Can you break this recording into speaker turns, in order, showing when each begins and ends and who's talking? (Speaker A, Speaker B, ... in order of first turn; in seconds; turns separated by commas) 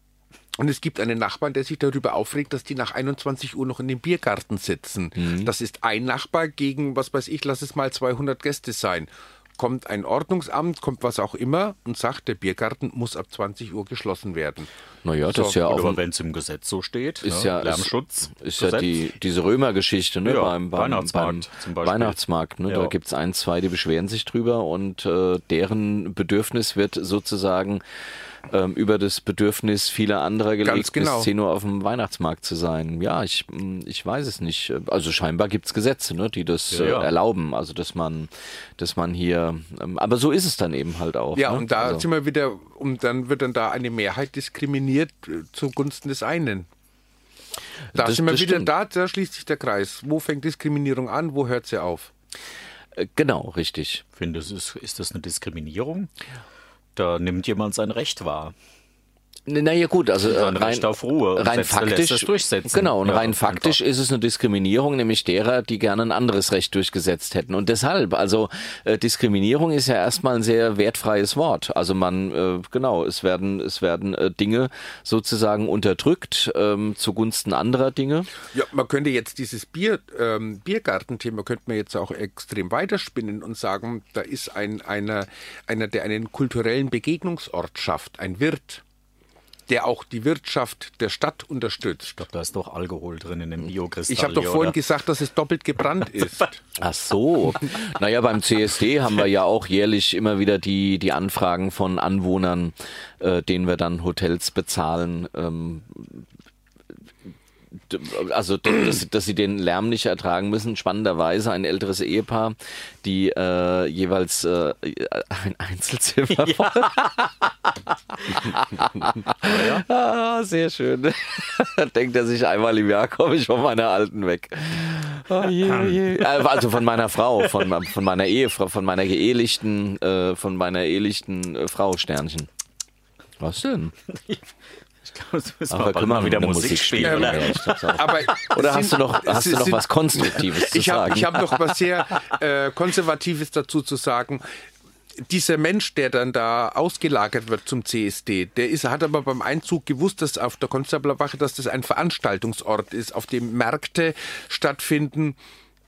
Speaker A: 0.6-14.7, Speaker B: 5.2-5.5, Speaker B: 15.0-16.0, Speaker C: 15.3-18.9, Speaker B: 17.2-27.8, Speaker C: 20.2-22.9, Speaker B: 28.5-42.0, Speaker A: 30.6-31.3, Speaker C: 36.7-37.1, Speaker A: 41.3-46.7, Speaker B: 47.9-48.7, Speaker A: 47.9-52.1, Speaker B: 53.0-54.0, Speaker C: 54.1-56.1, Speaker C: 56.9-58.5, Speaker B: 59.5-78.3, Speaker C: 60.2-63.8, Speaker A: 78.5-88.8, Speaker A: 89.7-92.1, Speaker C: 92.0-94.8, Speaker A: 94.1-96.6, Speaker C: 96.2-96.4, Speaker B: 96.8-106.2, Speaker B: 107.9-117.3, Speaker C: 116.4-116.9, Speaker B: 118.1-132.5, Speaker C: 119.4-119.8, Speaker C: 125.6-126.2, Speaker B: 133.4-133.9, Speaker C: 134.1-134.4, Speaker C: 135.0-138.2, Speaker B: 135.7-141.6, Speaker A: 137.0-144.4, Speaker A: 145.2-155.4